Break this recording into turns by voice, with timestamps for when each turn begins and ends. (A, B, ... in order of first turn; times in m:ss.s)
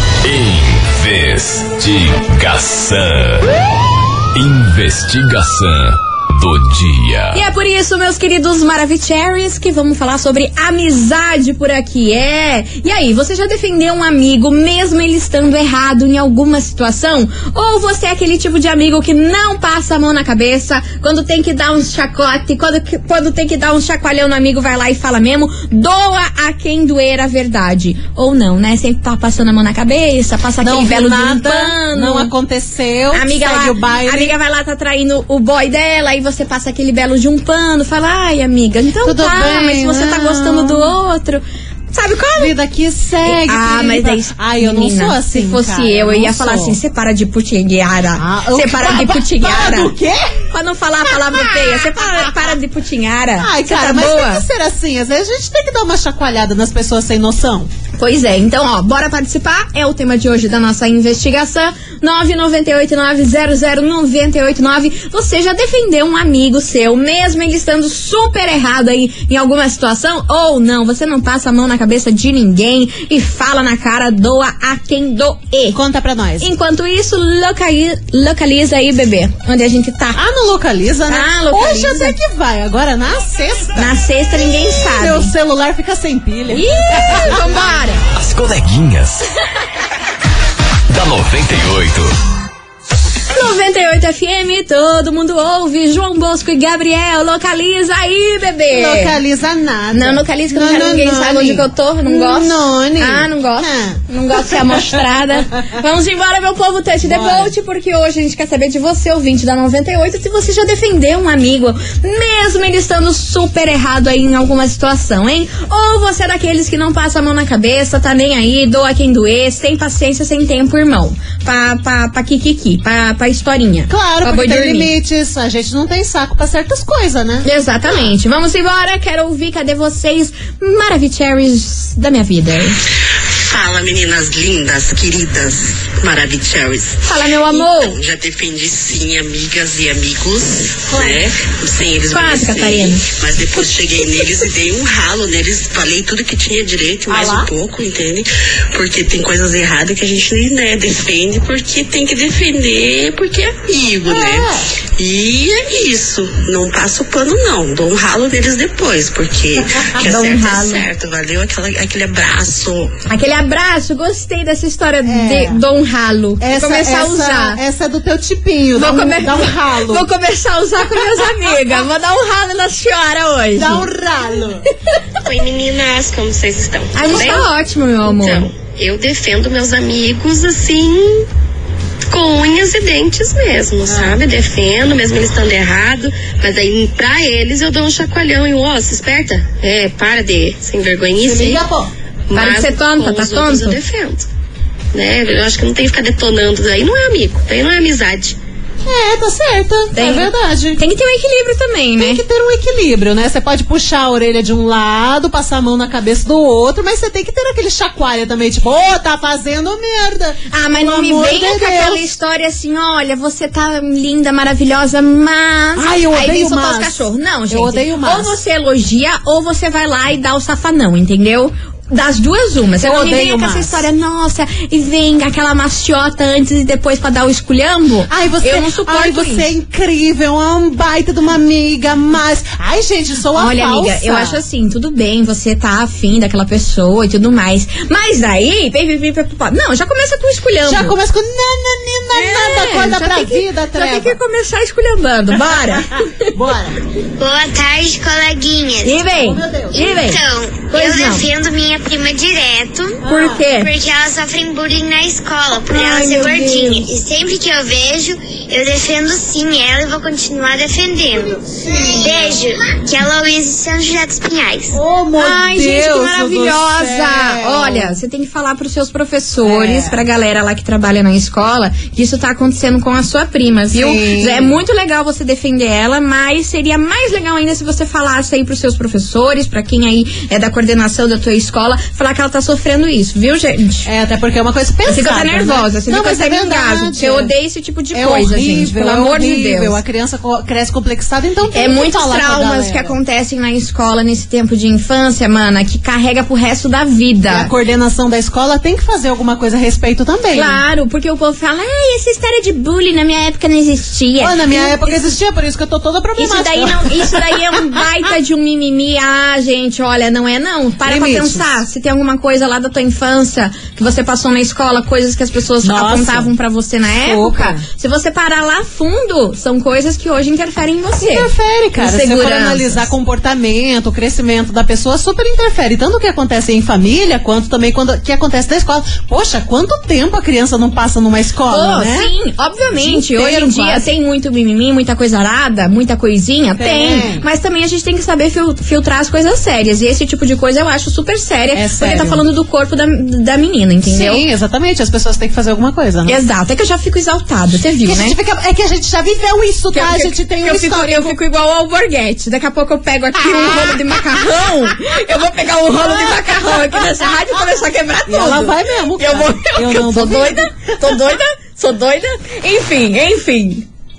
0:00.2-0:03.5 A
0:04.3-0:07.4 A
0:07.3-0:32.3 B
0:30.6-0:34.3 C
0:33.1-0:42.6 B
0:39.0-0:40.9 C
0:42.4-0:46.8 C
0:43.2-0:49.9 B
0:48.2-0:50.4 C
0:50.5-0:54.4 B
0:51.1-0:52.6 C
0:53.4-0:57.7 C
0:58.0-1:15.8 B
1:15.7-1:16.5 C
1:16.4-1:20.2 B
1:20.2-1:27.8 C
1:21.1-1:22.2 B
1:23.8-1:25.3 B
1:26.5-1:28.0 B
1:28.1-1:29.2 A
1:30.9-1:32.1 A
1:33.3-1:39.2 B
1:38.7-1:45.0 C
1:39.9-2:04.9 B
1:47.0-1:47.5 C
2:03.9-2:07.5 C
2:07.4-2:12.8 B
2:13.4-2:43.0 D
2:17.0-2:18.0 B
2:20.9-2:21.2 C
2:22.1-2:23.1 B
2:27.1-2:27.5 C
2:34.0-2:34.6 C
2:40.0-2:40.9 B
2:43.1-2:47.6 B
2:45.0-2:45.6 C
2:46.4-2:50.1 C
2:48.8-2:53.9 B
2:51.0-2:51.8 C
2:53.6-2:54.6 C
2:55.2-2:57.5 E
2:57.0-2:58.5 B
2:58.0-3:01.3 E
3:02.1-3:11.6 E
3:03.9-3:04.2 C
3:11.2-3:11.9 C
3:12.3-3:14.3 E
3:12.4-3:13.8 B
3:14.9-3:18.4 E
3:18.8-3:20.8 C
3:19.9-3:22.2 B
3:22.0-3:32.1 C
3:30.5-3:49.5 B
3:35.8-3:38.4 C
3:42.8-3:43.9 C
3:48.1-3:54.4 C
3:53.4-4:01.0 B
4:00.7-4:04.2 C
4:02.1-4:06.3 B
4:06.2-4:06.8 C
4:07.2-4:09.0 F
4:08.8-4:11.3 B
4:09.1-4:09.8 C
4:09.7-4:24.8 F
4:13.0-4:13.5 C
4:13.1-4:13.7 B
4:15.7-4:16.9 B
4:21.1-4:22.4 C
4:24.7-4:28.0 C
4:25.2-4:43.9 B
4:29.4-4:30.0 C
4:33.7-4:34.6 C
4:43.8-4:47.3 C
4:44.9-4:49.8 B
4:47.9-4:53.0 C
4:51.5-4:57.5 B
4:57.3-5:00.6 C
5:00.3-5:05.1 B
5:04.2-5:07.6 C
5:06.2-5:22.9 B
5:10.8-5:11.5 C
5:15.6-5:16.3 C
5:16.9-5:17.6 C
5:21.0-5:32.1 C
5:31.5-5:44.2 B
5:32.7-5:33.9 C
5:36.6-5:37.3 C
5:41.5-5:42.2 C
5:43.8-5:46.2 C
5:46.1-5:48.2 B
5:47.8-5:51.2 C
5:49.7-6:03.7 B
5:53.2-5:53.8 C
5:55.8-5:56.7 C
5:58.1-6:01.0 C